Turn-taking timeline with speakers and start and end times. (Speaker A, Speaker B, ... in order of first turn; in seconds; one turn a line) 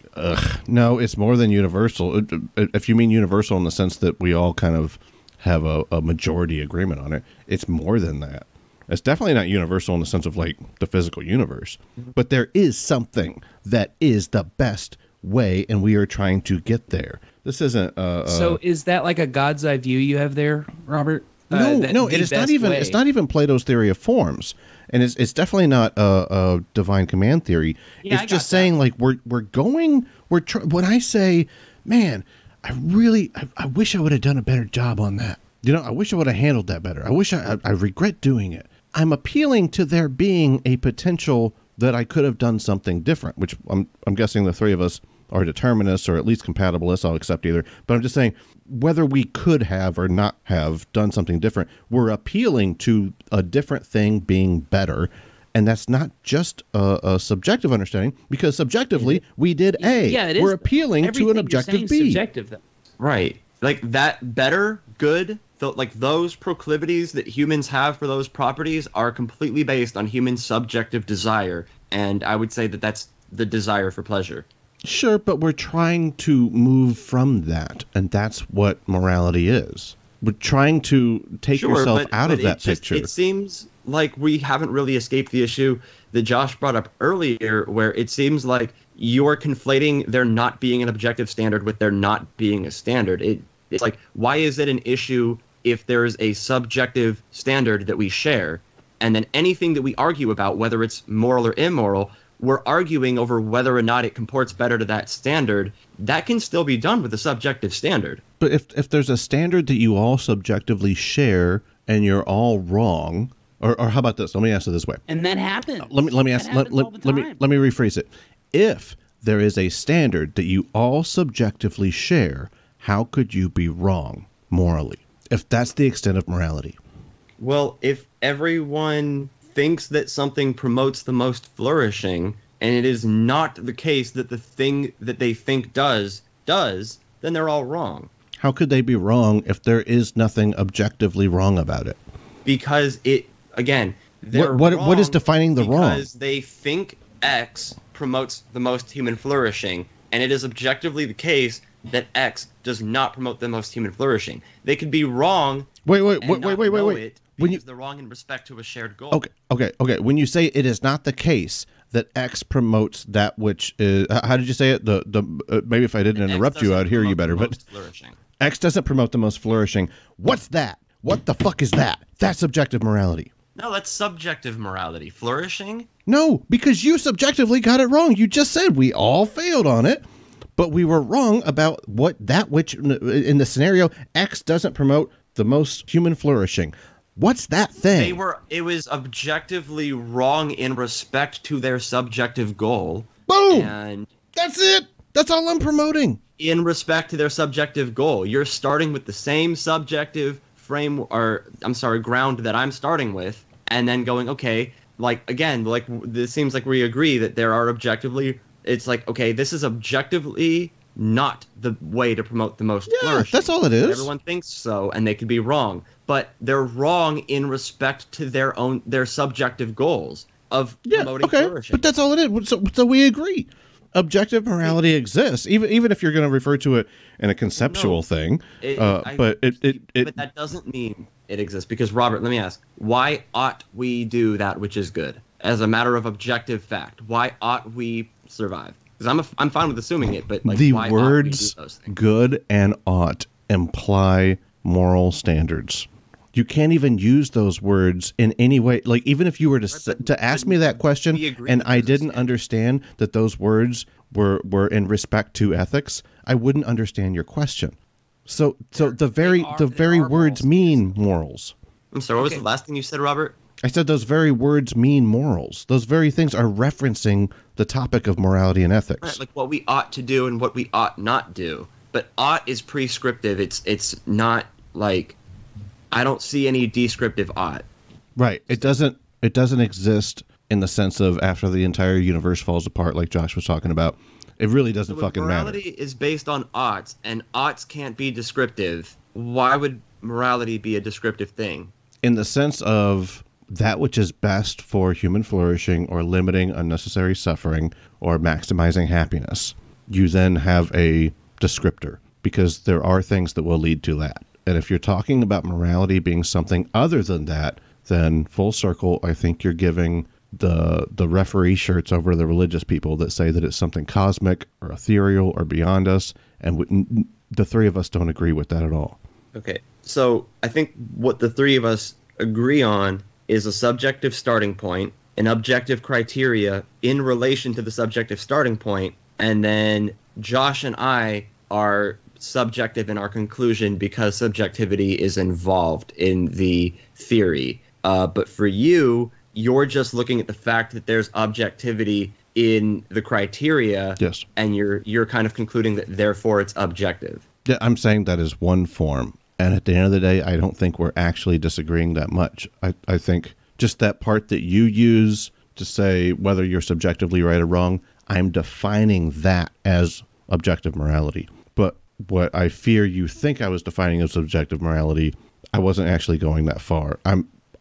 Speaker A: 0.1-18.6
Speaker B: 18.2-23.0
Speaker A: 21.5-62.2
Speaker B: 28.0-28.7
Speaker B: 59.8-62.6
Speaker C: 63.0-74.5
Speaker A: 74.8-83.1
Speaker C: 81.5-108.2
Speaker A: 108.4-115.0
Speaker B: 115.1-117.4
Speaker A: 115.8-126.8
Speaker C: 127.4-138.1
Speaker A: 138.4-142.0
Speaker C: 142.4-155.7
Speaker A: 144.3-146.1
Speaker A: 155.8-157.6
Speaker C: 156.2-159.2
Speaker A: 159.1-167.6
Speaker C: 166.1-168.2
Speaker A: 168.4-173.3
Speaker C: 173.6-175.9
Speaker A: 176.1-180.0
Speaker A: 180.6-188.2
Speaker C: 187.9-194.1
Speaker A: 193.3-193.7
Speaker A: 194.3-196.2
Speaker C: 196.4-221.9
Speaker A: 212.9-214.1
Speaker A: 220.9-230.1
Speaker C: 227.6-228.0
Speaker C: 228.6-241.9
Speaker A: 240.4-261.5
Speaker C: 249.7-252.3
Speaker B: 258.8-261.0
Speaker C: 261.9-263.4
Speaker A: 263.6-269.2
Speaker C: 269.0-275.2
Speaker C: 275.9-277.6
Speaker A: 278.1-285.6
Speaker C: 284.9-291.7
Speaker A: 292.0-319.0
Speaker C: 319.3-347.2
Speaker A: 344.0-344.2
Speaker A: 347.4-367.3